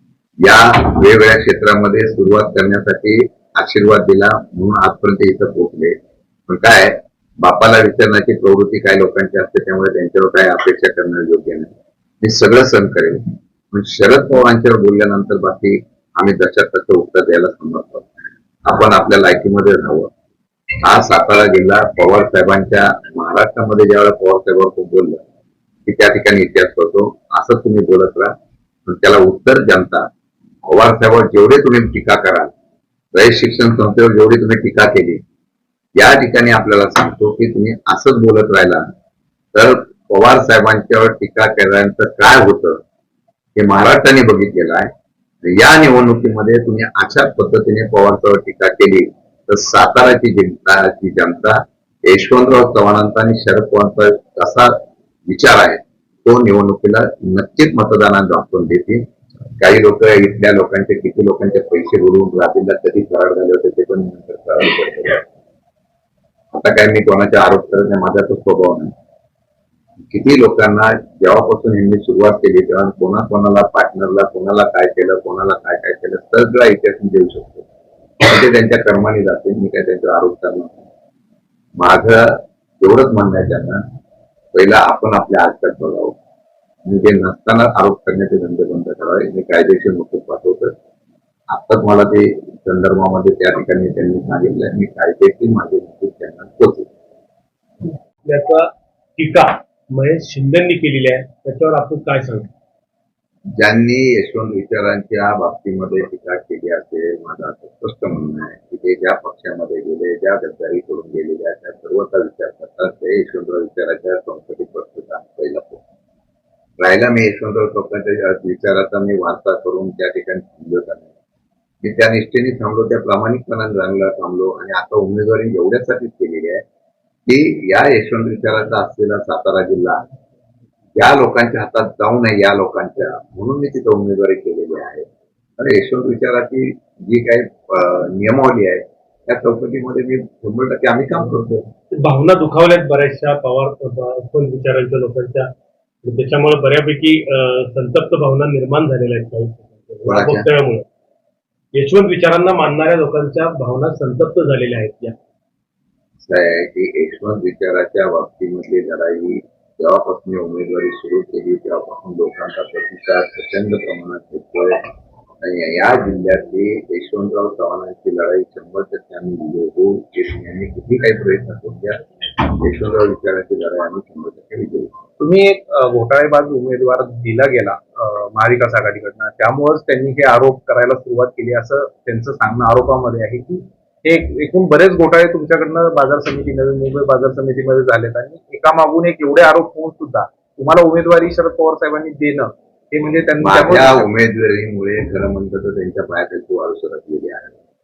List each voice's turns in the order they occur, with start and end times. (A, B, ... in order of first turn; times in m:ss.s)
0:00.4-0:06.0 A
0:06.5-0:18.1 A
0:18.6-0:20.1 A
0:20.8-0:25.2 A
0:25.9-0:28.3 A
0:28.9-0:30.1 A
0:30.7-0:32.5 A
0:33.1-0:35.2 A
0:36.0-0:38.9 A
0:39.5-0:42.8 A
0:43.6-0:44.9 A
0:45.4-0:59.0 A
0:59.6-1:05.2 A
1:06.5-1:08.9 A
1:10.1-1:17.6 A
1:18.2-1:20.9 A
1:21.8-1:23.8 A
1:24.5-1:26.2 A
1:26.9-1:30.7 A
1:31.5-1:36.9 A
1:37.9-1:38.6 B
1:39.2-1:42.5 B
1:43.5-1:55.8 A
1:56.8-2:01.1 A
2:01.8-2:06.6 A
2:07.3-2:10.0 A
2:11.0-2:21.7 A
2:22.0-2:25.5 B
2:26.0-2:30.8 B
2:30.1-2:30.5 A
2:31.7-2:35.2 B
2:36.2-2:44.9 A
2:45.4-2:55.0 A
2:55.2-3:14.1 C
3:13.4-3:17.6 A